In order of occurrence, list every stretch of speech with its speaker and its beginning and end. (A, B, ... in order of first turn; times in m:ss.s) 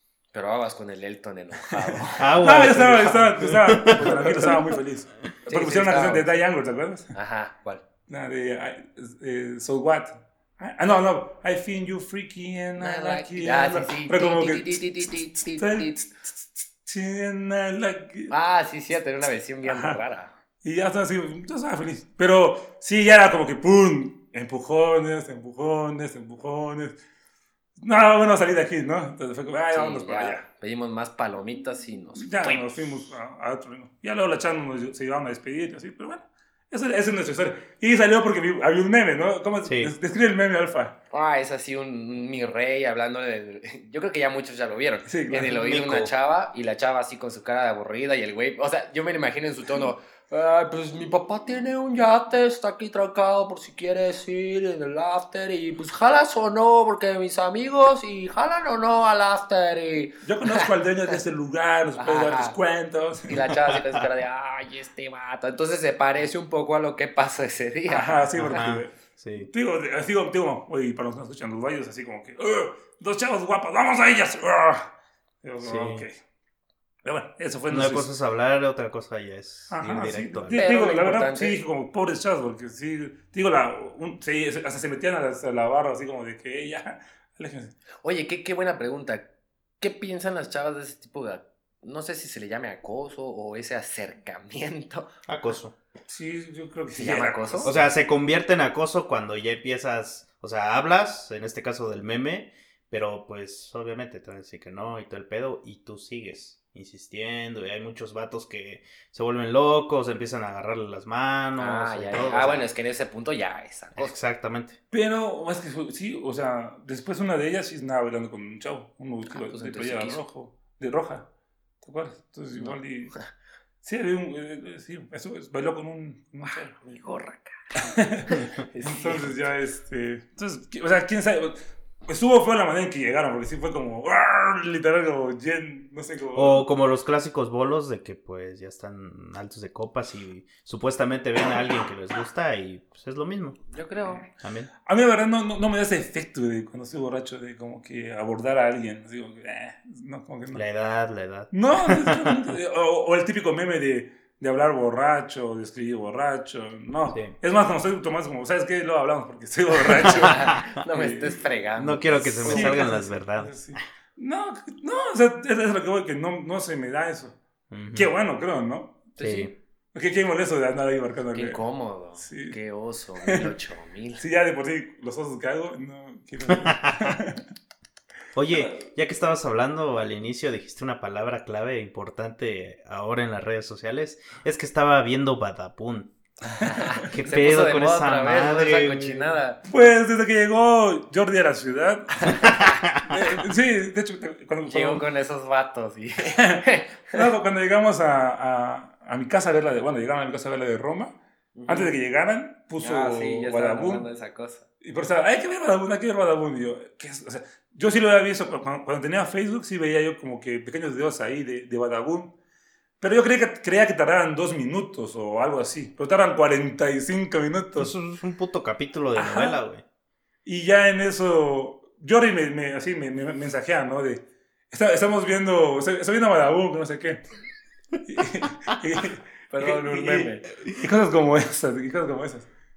0:00.3-0:02.3 A
0:02.2-0:04.6 B
0:02.4-0:07.1 C
0:05.5-0:06.2 A
0:07.1-0:07.8 A
0:08.1-0:14.8 C
0:12.8-0:16.0 A
0:15.5-0:18.3 C
0:18.3-0:20.3 A
0:19.6-0:20.0 C
0:20.6-0:27.0 C
0:27.8-0:30.4 C
0:29.7-0:32.8 A
0:32.2-0:41.0 C
0:39.6-0:39.9 B
0:41.1-1:00.7 A
0:45.1-0:45.7 C
0:45.6-0:46.1 B
1:00.2-1:03.5 C
1:02.0-1:02.6 A
1:03.3-1:08.6 A
1:07.9-1:16.2 C
1:08.4-1:09.5 B
1:15.6-1:16.1 B
1:17.0-1:18.1 C
1:17.7-1:20.7 B
1:19.7-1:27.7 C
1:20.5-1:21.6 A
1:28.0-1:29.3 A
1:29.8-1:35.1 A
1:35.3-1:35.7 B
1:36.1-1:37.8 C
1:36.9-1:37.7 A
1:37.6-1:52.7 B
1:51.6-1:54.2 A
1:54.0-1:54.8 B
1:54.9-2:01.3 C
1:59.3-2:00.2 A
2:01.8-2:03.2 C
2:03.8-2:06.7 C
2:06.4-2:09.4 A
2:07.8-2:16.7 C
2:16.4-2:23.6 B
2:23.7-2:24.2 A
2:24.4-2:24.7 B
2:24.8-2:30.6 C
2:30.5-2:32.4 B
2:31.5-2:41.4 C
2:40.1-2:40.4 B
2:40.1-2:42.9 A
2:41.8-2:43.8 B
2:42.4-2:47.4 C
2:47.7-2:48.1 B
2:47.9-2:49.1 C
2:49.2-2:49.5 A
2:49.2-2:49.5 B
2:49.9-2:51.6 C
2:51.3-2:54.2 A
2:52.2-2:52.6 C
2:53.2-2:53.5 C
2:54.2-2:57.4 C
2:56.5-2:57.2 B
2:58.3-3:06.2 B
2:58.5-2:58.8 C
3:06.5-3:09.6 A
3:07.0-3:09.4 B
3:09.6-3:15.0 C
3:12.5-3:13.0 B
3:14.7-3:17.2 A
3:16.4-3:21.2 C
3:21.6-3:21.9 A
3:21.7-3:24.1 C
3:22.8-3:24.6 A
3:24.8-3:32.3 C
3:33.0-3:37.9 C
3:37.8-3:39.8 B
3:39.1-3:39.6 C
3:40.4-3:47.2 C
3:48.0-3:52.5 C
3:49.5-3:50.4 A